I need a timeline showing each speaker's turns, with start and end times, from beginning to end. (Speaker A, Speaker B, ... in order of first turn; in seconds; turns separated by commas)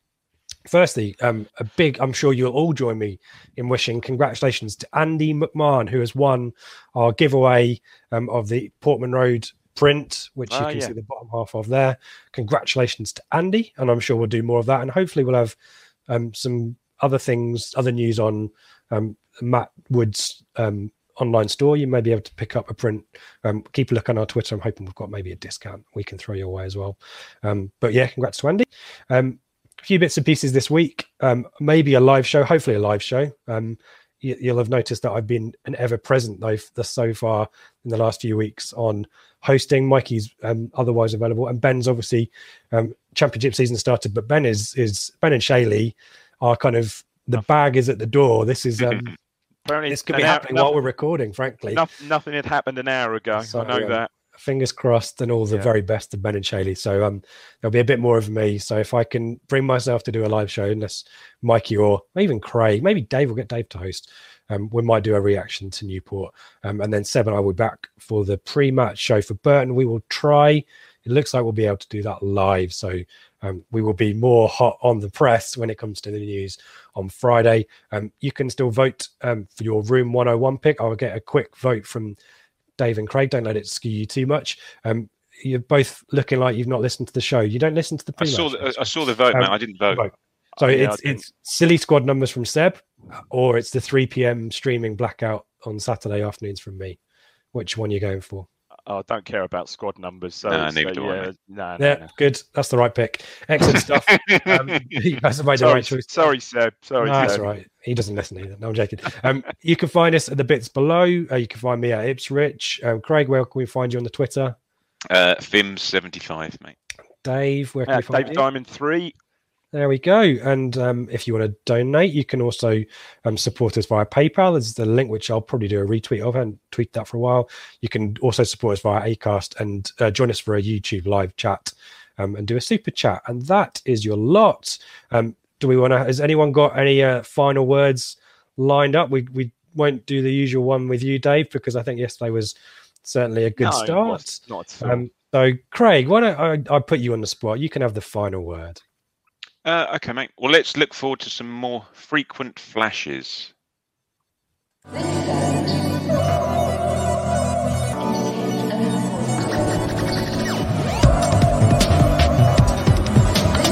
Speaker A: 0.7-15.6, Speaker B: 10.5-10.9, Speaker A: 16.1-49.1, Speaker B: 49.7-50.8, Speaker A: 49.9-51.8, Speaker B: 51.7-54.1, Speaker A: 53.4-82.2, Speaker A: 82.8-97.0, Speaker C: 88.2-90.0, Speaker B: 90.6-91.2, Speaker A: 97.5-98.5, Speaker B: 98.9-102.1, Speaker C: 100.5-101.3, Speaker A: 101.8-106.1, Speaker C: 103.8-104.5, Speaker B: 105.6-107.5, Speaker A: 107.0-114.6, Speaker C: 115.1-116.8, Speaker A: 117.2-118.5, Speaker B: 117.9-119.1, Speaker A: 119.7-148.8, Speaker B: 143.6-145.1, Speaker C: 149.7-153.5